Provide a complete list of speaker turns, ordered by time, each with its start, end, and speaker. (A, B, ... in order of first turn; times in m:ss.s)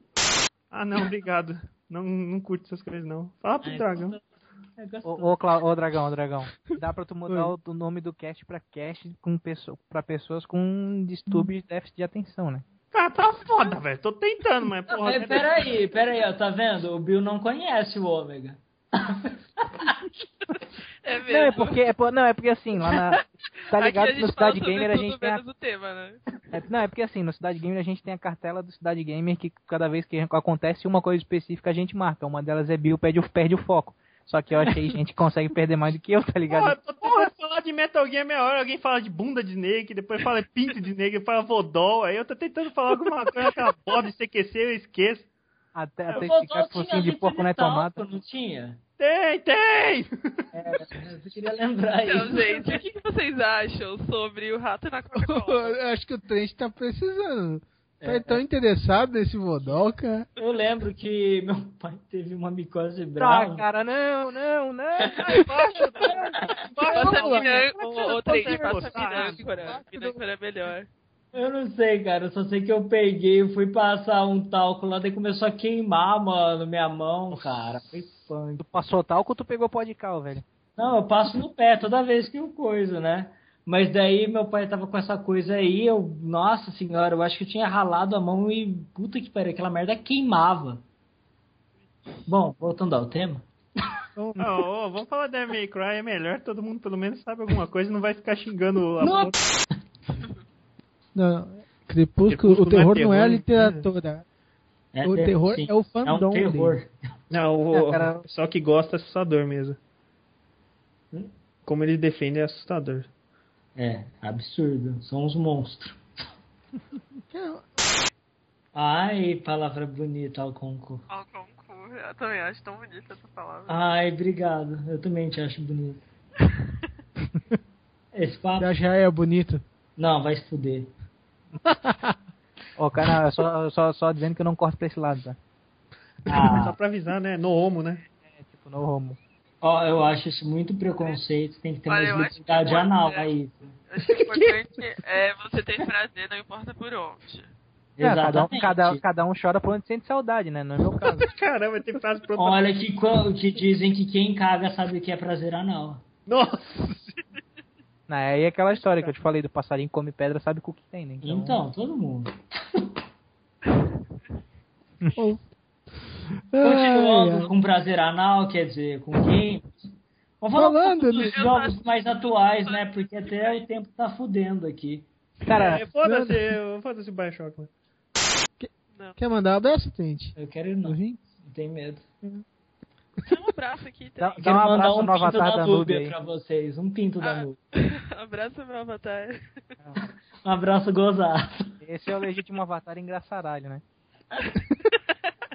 0:00.7-0:04.2 A
0:03.6-0:04.2 B
0:04.8-0:05.4 B
0:05.0-0:12.6 C
0:07.3-0:07.5 D
0:12.9-0:15.8 A
0:14.9-0:20.0 B
0:21.0-0:21.8 E
0:21.3-0:25.4 C
0:23.1-0:26.2 E
0:26.5-0:36.8 C
0:36.5-0:45.3 A
0:45.8-0:48.0 C
0:46.1-0:48.8 B
0:49.0-0:50.4 A
0:50.5-0:52.8 B
0:52.0-0:55.8 E
0:55.2-1:00.3 D
0:58.0-0:58.4 B
1:00.4-1:03.6 B
1:03.2-1:05.5 C
1:05.2-1:09.8 A
1:06.9-1:10.9 E
1:07.0-1:07.5 D
1:09.7-1:10.2 D
1:11.3-1:18.6 B
1:18.6-1:20.4 C
1:20.8-1:30.8 B
1:32.3-1:33.5 B
1:34.2-1:34.6 D
1:34.4-1:39.4 A
1:39.0-1:39.8 B
1:41.2-1:44.2 D
1:42.3-1:43.9 A
1:44.9-1:46.9 B
1:45.0-1:46.8 D
1:47.3-1:49.8 A
1:47.7-1:48.2 C
1:51.7-1:53.1 A
1:53.8-1:56.0 B
1:57.3-1:57.6 D
1:58.7-2:01.0 B
2:01.1-2:03.8 E
2:03.7-2:06.0 B
2:08.1-2:08.7 B
2:08.6-2:09.6 D
2:10.0-2:10.9 B
2:11.6-2:12.2 D
2:12.8-2:15.4 C
2:16.3-2:16.8 B
2:16.4-2:18.0 A
2:18.3-2:19.2 C
2:19.6-2:24.2 B
2:21.9-2:23.3 E
2:23.9-2:27.5 E
2:28.0-2:29.0 B
2:28.0-2:31.3 C
2:31.2-2:32.7 A
2:32.4-2:36.0 B
2:36.3-2:37.1 A
2:38.1-2:41.6 C
2:38.8-2:39.1 A
2:41.2-2:42.9 B
2:46.5-2:47.5 D
2:46.6-2:49.7 B
2:50.4-2:55.1 B
2:50.5-2:51.4 D
2:51.1-2:53.6 E
2:55.4-2:56.5 D
2:55.5-2:55.8 C
2:55.5-2:57.7 A
2:58.6-3:01.2 D
2:58.9-2:59.2 E
3:00.4-3:02.1 B
3:03.2-3:04.8 E
3:04.2-3:06.1 C
3:04.4-3:07.6 B
3:07.2-3:09.6 E
3:10.4-3:11.8 B
3:11.8-3:13.8 C